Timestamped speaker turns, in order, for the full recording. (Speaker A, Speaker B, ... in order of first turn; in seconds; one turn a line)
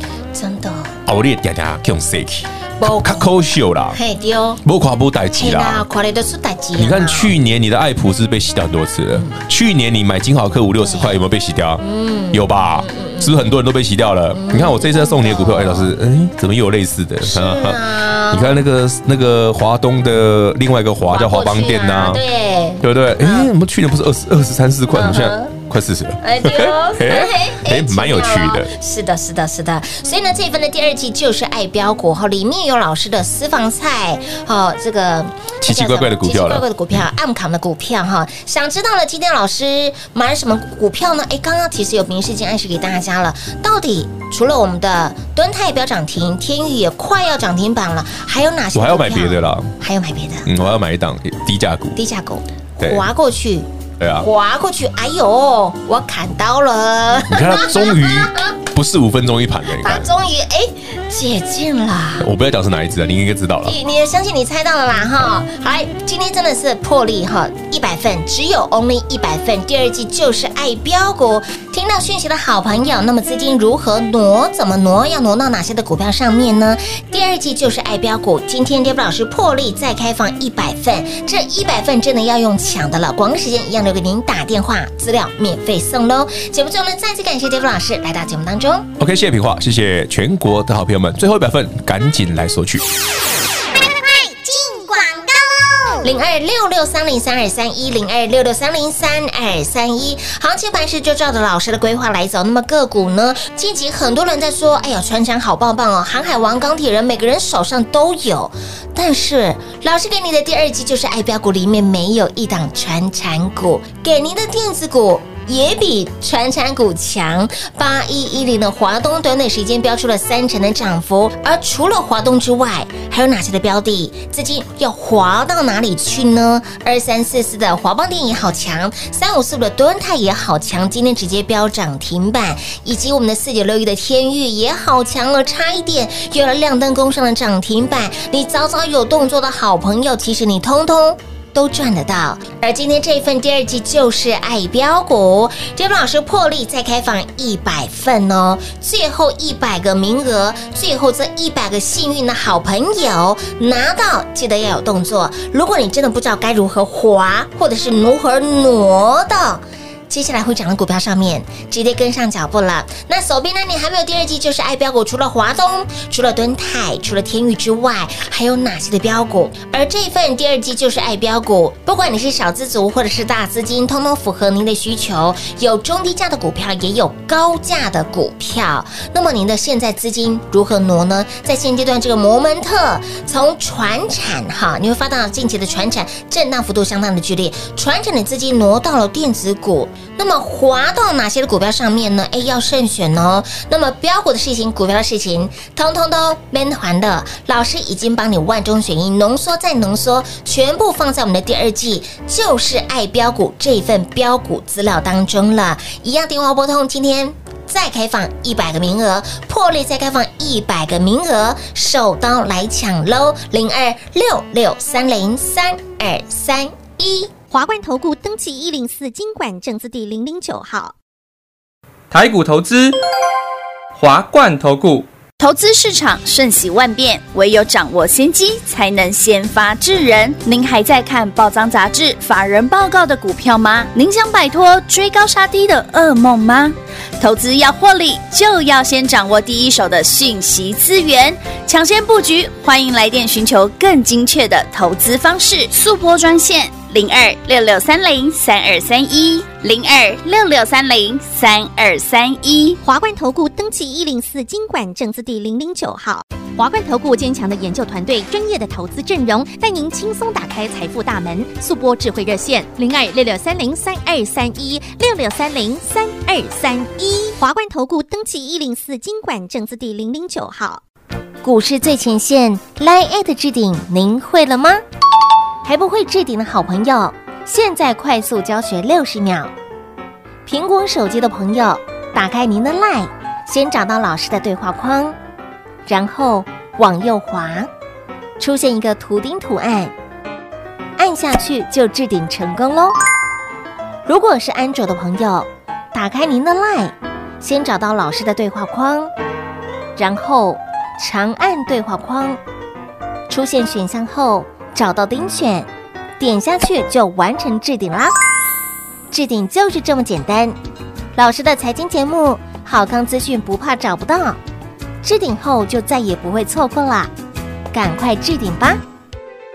Speaker A: 0.3-1.0
Speaker B: 1.1-4.0
Speaker A: 2.8-3.3
Speaker A: 3.9-4.6
Speaker B: 4.6-5.8
Speaker A: 5.3-7.3
Speaker B: 6.8-22.2
Speaker A: 10.8-11.2
Speaker A: 11.8-13.6
Speaker A: 14.3-15.9
Speaker A: 17.2-18.6
Speaker A: 21.1-23.5
Speaker B: 22.8-28.7
Speaker A: 24.9-25.6
Speaker A: 26.2-50.5
Speaker B: 35.6-36.6
Speaker B: 48.7-49.7
Speaker B: 50.5-52.0
Speaker A: 52.0-53.7
Speaker B: 52.8-53.1
Speaker B: 54.0-54.3
Speaker A: 54.2-58.5
Speaker B: 57.3-60.1
Speaker A: 59.8-62.3
Speaker B: 62.2-63.8
Speaker A: 63.6-88.9
Speaker B: 89.0-92.8
Speaker C: 93.2-96.1
Speaker A: 96.0-217.3
Speaker D: 217.5-220.9
Speaker C: 217.5-220.9
Speaker E: 222.1-223.0
Speaker E: 223.9-225.1
Speaker F: 225.4-252.8
Speaker D: 252.8-270.8
Speaker C: 255.8-256.2
Speaker C: 257.4-263.2
Speaker C: 264.8-265.6
Speaker C: 268.1-269.0
Speaker A: 271.4-274.8
Speaker A: 275.6-279.5
Speaker A: 280.5-285.2
Speaker A: 285.9-287.7
Speaker A: 288.4-289.9
Speaker A: 291.0-293.0
Speaker A: 294.1-299.1
Speaker A: 300.0-302.4
Speaker A: 303.3-308.1
Speaker A: 309.1-310.6
Speaker A: 311.2-314.4
Speaker A: 315.0-317.1
Speaker A: 317.7-318.8